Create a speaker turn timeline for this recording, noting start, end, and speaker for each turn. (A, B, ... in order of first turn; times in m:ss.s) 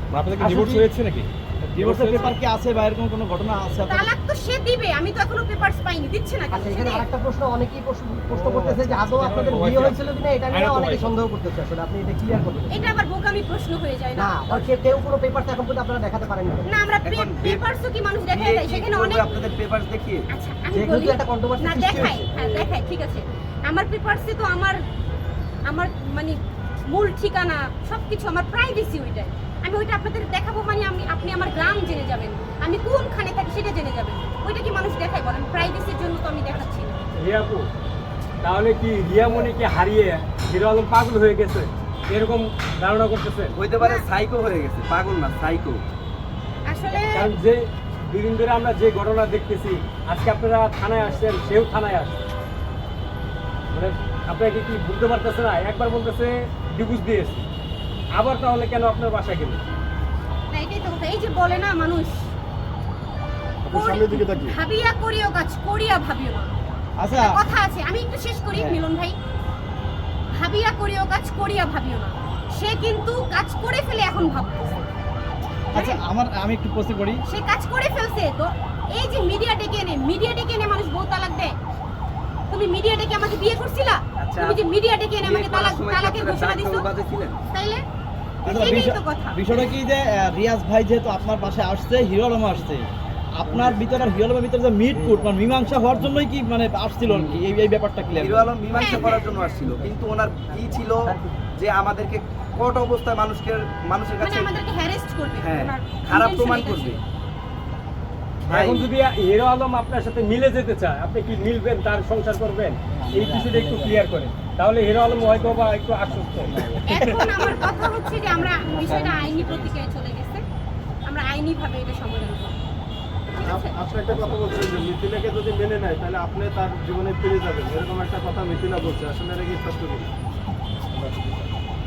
0:00.1-0:02.4 A
0:00.4-0:00.9 B
0:01.7-0:04.1 B
0:03.9-0:07.1 C
0:06.5-0:12.8 D
0:08.5-0:11.1 A
0:12.7-0:14.7 C
0:14.2-0:16.7 D
0:16.6-0:19.2 C
0:17.0-0:17.6 E
0:18.3-0:20.2 E
0:20.3-0:24.8 C
0:20.7-0:22.2 D
0:25.6-0:37.0 C
0:37.1-0:37.7 A
0:38.4-0:43.5 A
0:43.6-0:45.8 E
0:43.8-0:44.0 C
0:46.6-0:47.3 C
0:47.1-0:52.2 A
0:53.7-0:57.4 A
0:58.2-0:59.6 A
1:00.5-1:02.3 C
1:03.6-1:04.6 F
1:03.7-1:06.5 C
1:07.0-1:07.4 B
1:07.2-1:09.2 C
1:08.5-1:08.8 B
1:10.4-1:14.8 C
1:15.7-1:17.2 B
1:15.7-1:16.0 C
1:17.3-1:21.5 C
1:22.5-1:26.9 C
1:24.2-1:24.6 E
1:25.2-1:27.4 E
1:27.5-1:27.8 C
1:28.4-1:32.8 B
1:28.4-1:29.7 C
1:33.4-1:38.5 B
1:38.2-1:44.6 E
1:38.7-1:39.6 C
1:44.2-1:47.0 C
1:45.4-1:47.0 E
1:48.4-1:48.9 E
1:48.5-1:56.6 A
1:52.9-1:54.0 B
1:55.1-1:59.7 B
1:56.8-2:00.4 C
2:01.0-2:02.5 C
2:03.3-2:03.8 C
2:03.4-2:10.1 F
2:10.9-2:11.4 F